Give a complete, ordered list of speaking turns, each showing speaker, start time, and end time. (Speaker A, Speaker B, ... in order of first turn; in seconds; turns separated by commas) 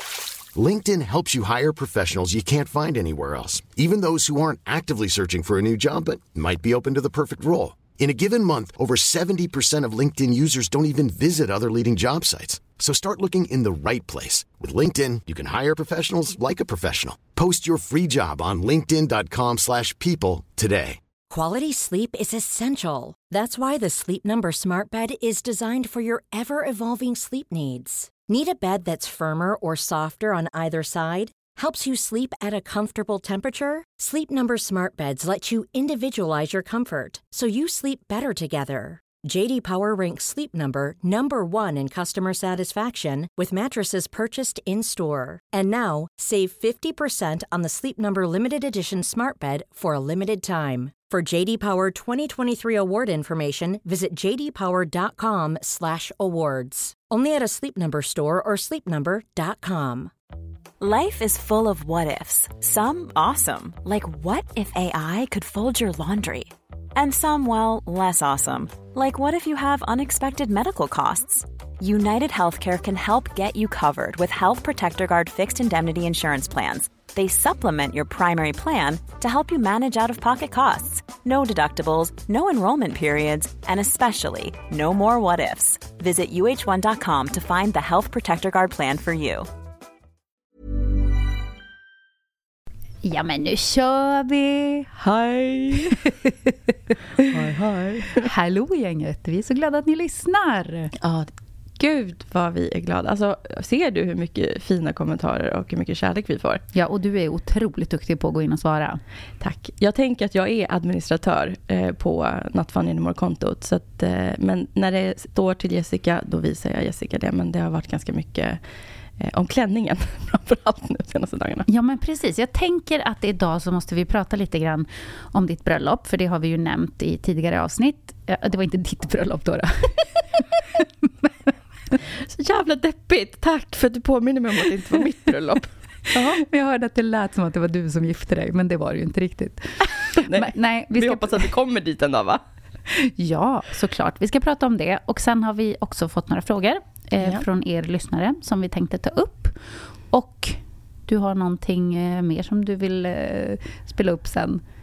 Speaker A: 0.5-21.0, Speaker B: 21.3-60.1, Speaker C: 60.8-89.5, Speaker D: 93.0-94.9, Speaker E: 95.0-96.0, Speaker D: 95.8-96.3, Speaker E: 97.3-98.3, Speaker D: 98.2-100.9, Speaker E: 101.0-106.6, Speaker D: 106.7-109.0, Speaker E: 109.4-118.6, Speaker E: 119.2-121.7, Speaker D: 121.7-130.2, Speaker E: 132.3-136.4, Speaker D: 136.4-141.5, Speaker E: 140.1-142.4, Speaker D: 142.9-154.6